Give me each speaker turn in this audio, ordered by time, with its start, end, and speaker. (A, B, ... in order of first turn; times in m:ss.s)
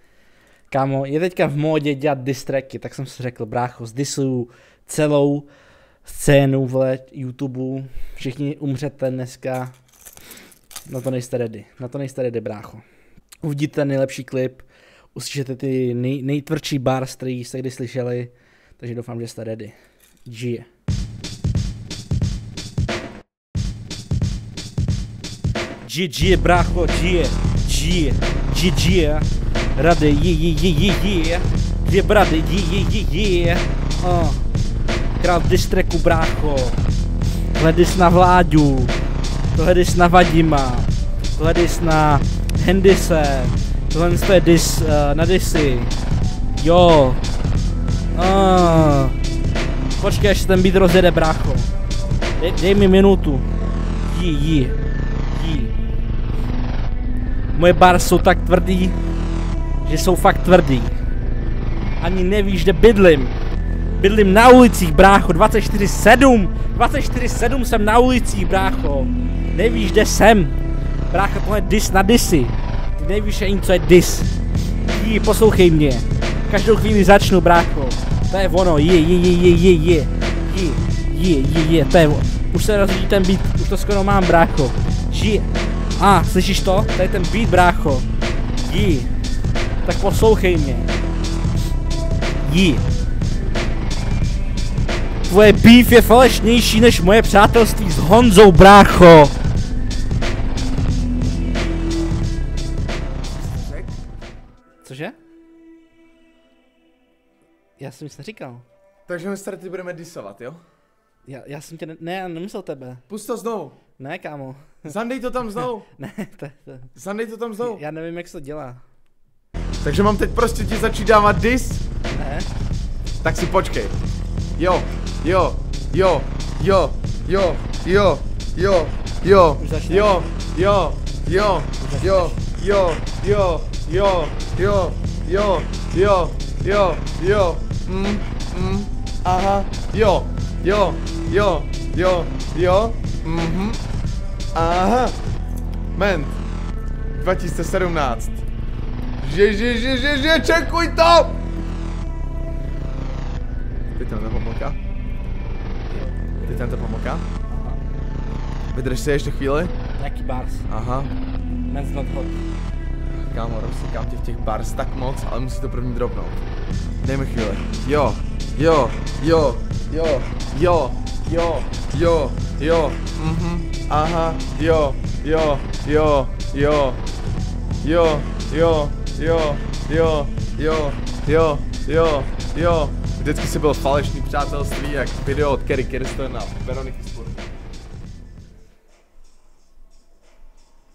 0:00.7-0:05.5 A
0:06.0-0:09.7 A
0:10.9-0:12.8 A
0:13.4-0:19.7 A
0:20.2-0:20.7 A
0:25.8-0:34.5 A
0:35.2-0:36.8 A
0:37.5-0:38.9 A
0:39.5-0:45.9 A
0:46.6-0:47.2 A
0:48.1-0:49.2 A
0:50.0-0:51.7 A
0:52.4-0:53.5 A
0:54.0-0:54.8 A
0:55.3-0:55.7 A
0:57.5-0:59.0 A
0:59.8-1:00.9 A
1:02.0-1:03.4 A
1:04.0-1:10.6 A
1:11.1-1:14.3 A
1:14.8-1:28.1 A
1:28.6-1:29.1 A
1:29.8-1:30.9 A
1:32.4-1:32.8 A
1:35.3-1:39.3 A
1:43.3-1:43.9 B
1:44.8-1:45.2 A
1:47.8-1:48.6 A
1:49.1-1:50.6 B
1:51.2-1:53.0 A
1:53.1-1:53.8 B
1:54.0-1:54.9 A
1:54.8-1:55.9 B
1:55.9-1:56.9 A
1:57.0-1:57.8 B
1:57.6-1:58.8 A
1:59.8-2:01.8 B
2:02.1-2:02.5 A
2:03.2-2:03.9 B
2:04.6-2:23.8 B
2:09.6-2:10.2 A
2:11.8-2:12.4 A
2:24.5-2:25.2 B
2:25.9-2:26.4 B
2:27.1-2:28.4 B
2:29.2-2:31.4 B
2:33.9-2:34.8 B
2:35.9-2:36.4 A
2:36.4-2:37.2 B
2:37.5-2:37.8 A
2:38.7-2:39.7 B
2:40.0-2:40.7 A
2:40.7-2:41.1 B
2:41.7-2:42.4 A
2:43.3-2:46.4 B
2:47.0-2:57.0 B
2:57.8-3:07.4 B